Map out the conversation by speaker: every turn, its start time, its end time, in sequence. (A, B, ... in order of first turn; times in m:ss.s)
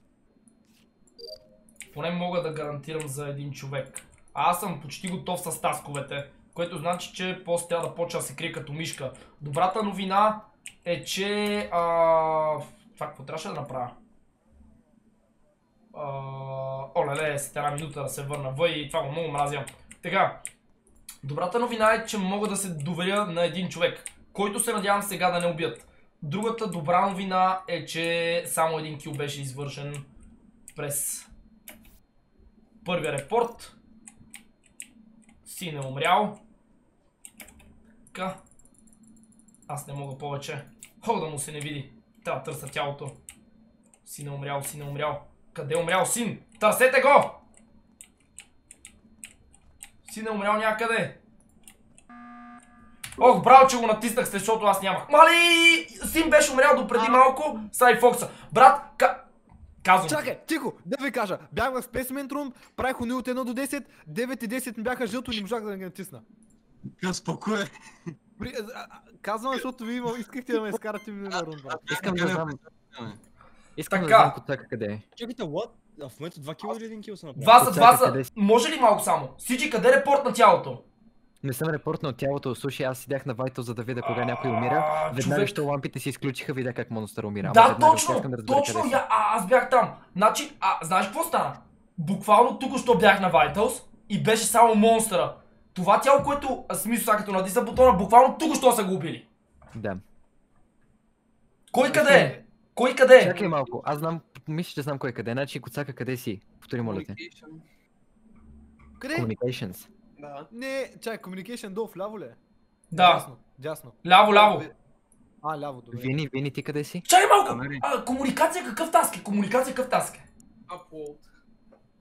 0:01.9-0:14.0 A
0:15.9-0:20.4 A
0:21.2-0:30.1 A
0:30.8-0:31.3 A
0:32.8-0:33.8 A
0:35.4-0:36.4 A
0:38.1-0:38.4 A
0:39.7-0:43.2 A
0:44.0-0:47.4 A
0:50.0-0:51.2 A
0:53.2-0:59.2 A
0:57.0-0:57.2 B
0:59.8-1:00.3 A
1:00.0-1:06.2 B
1:06.9-1:07.7 C
1:08.4-1:11.8 B
1:10.6-1:13.2 C
1:11.8-1:12.6 D
1:13.8-1:15.0 D
1:13.9-1:14.4 A
1:15.2-1:17.6 C
1:17.4-1:18.3 D
1:17.4-1:20.8 A
1:21.4-1:29.0 D
1:24.1-1:25.6 A
1:27.4-1:39.2 A
1:39.7-1:40.0 D
1:41.7-1:43.3 A
1:41.8-1:42.4 B
1:43.2-1:47.2 D
1:43.3-1:44.1 E
1:46.8-1:47.6 E
1:49.0-1:49.3 B
1:49.1-1:49.9 D
1:50.2-1:50.5 E
1:50.5-1:52.4 B
1:52.9-1:53.3 A
1:52.9-1:54.1 B
1:54.0-1:54.7 A
1:54.2-1:54.8 E
1:55.4-1:56.2 B
1:55.9-1:57.1 D
1:57.1-2:00.2 A
1:57.4-1:57.9 C
2:00.7-2:01.3 E